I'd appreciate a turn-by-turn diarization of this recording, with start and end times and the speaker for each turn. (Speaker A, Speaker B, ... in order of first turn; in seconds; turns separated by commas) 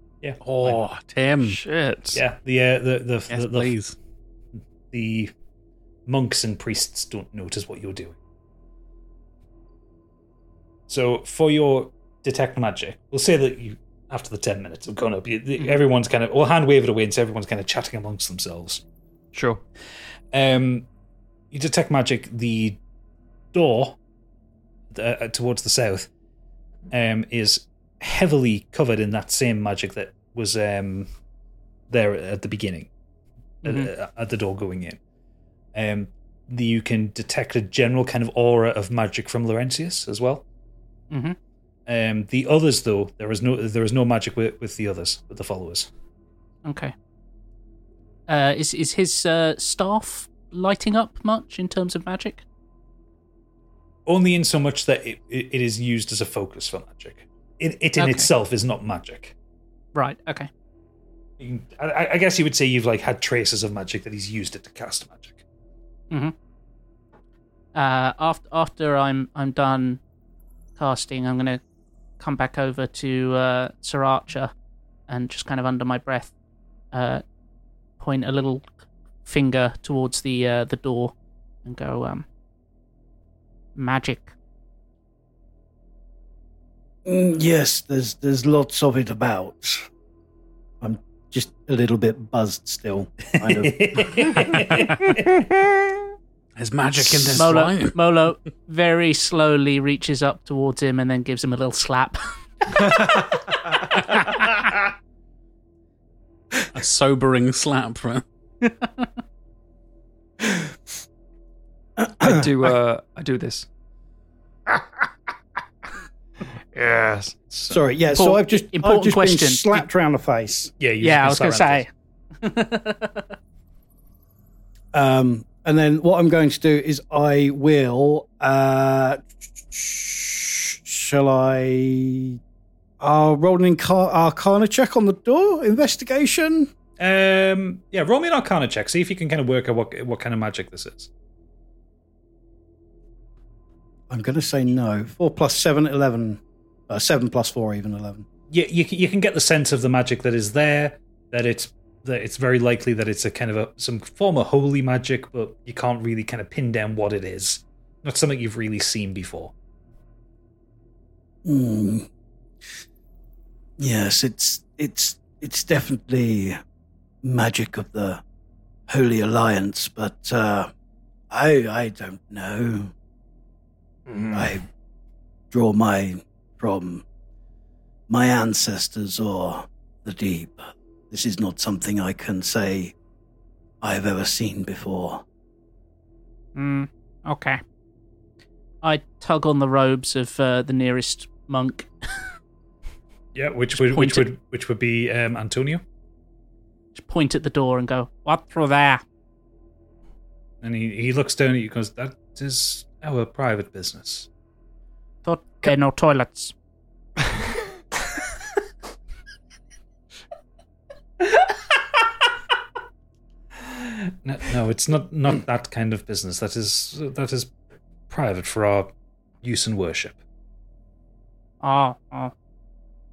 Speaker A: 0.2-0.8, Speaker B: 0.4-1.6, Speaker C: 1.4-2.2, Speaker A: 2.1-3.7, Speaker B: 3.3-4.0, Speaker A: 4.9-5.3, Speaker A: 6.1-8.2, Speaker A: 10.9-18.8, Speaker C: 19.3-19.6, Speaker A: 20.3-20.9, Speaker A: 21.5-22.8, Speaker A: 23.5-24.0, Speaker A: 24.9-26.1, Speaker A: 26.9-31.1, Speaker A: 31.9-32.9, Speaker D: 33.6-33.9, Speaker A: 33.6-35.0, Speaker A: 35.7-40.4, Speaker D: 41.1-41.4, Speaker A: 41.9-45.9, Speaker D: 46.6-46.9, Speaker D: 48.3-52.4, Speaker A: 54.1-59.3, Speaker D: 58.0-58.3, Speaker D: 59.9-60.5, Speaker A: 61.4-65.4, Speaker D: 67.7-70.0, Speaker D: 70.8-71.6, Speaker D: 72.2-74.5, Speaker D: 75.1-76.3, Speaker D: 76.9-77.2, Speaker D: 78.0-78.7, Speaker D: 79.2-81.1, Speaker D: 81.6-82.2, Speaker D: 83.8-84.3, Speaker E: 87.0-89.8, Speaker E: 90.8-94.0, Speaker A: 93.3-95.4, Speaker B: 96.6-98.0, Speaker D: 97.3-102.2, Speaker B: 106.7-108.2, Speaker E: 112.0-112.5, Speaker C: 112.2-113.7, Speaker C: 116.7-117.4, Speaker A: 117.5-117.8, Speaker E: 117.7-120.7, Speaker D: 118.1-119.8, Speaker A: 120.8-121.8, Speaker D: 121.0-121.9, Speaker D: 122.4-123.2, Speaker E: 124.9-132.4, Speaker E: 133.0-136.7, Speaker A: 137.0-141.1, Speaker E: 144.1-148.2, Speaker A: 148.5-159.5, Speaker E: 161.4-162.1, Speaker E: 163.8-166.6, Speaker E: 167.2-168.2, Speaker E: 168.9-170.7, Speaker E: 171.3-172.9, Speaker C: 174.1-174.6, Speaker E: 174.3-174.6, Speaker E: 175.5-177.0, Speaker E: 178.1-182.9, Speaker E: 183.8-185.2, Speaker D: 186.6-187.6, Speaker D: 188.8-191.9, Speaker A: 193.3-195.8, Speaker D: 193.8-194.3, Speaker D: 196.9-199.0, Speaker A: 200.6-204.3, Speaker D: 205.2-206.5, Speaker A: 213.7-217.5, Speaker A: 218.1-218.9, Speaker A: 219.4-220.2, Speaker D: 221.6-222.3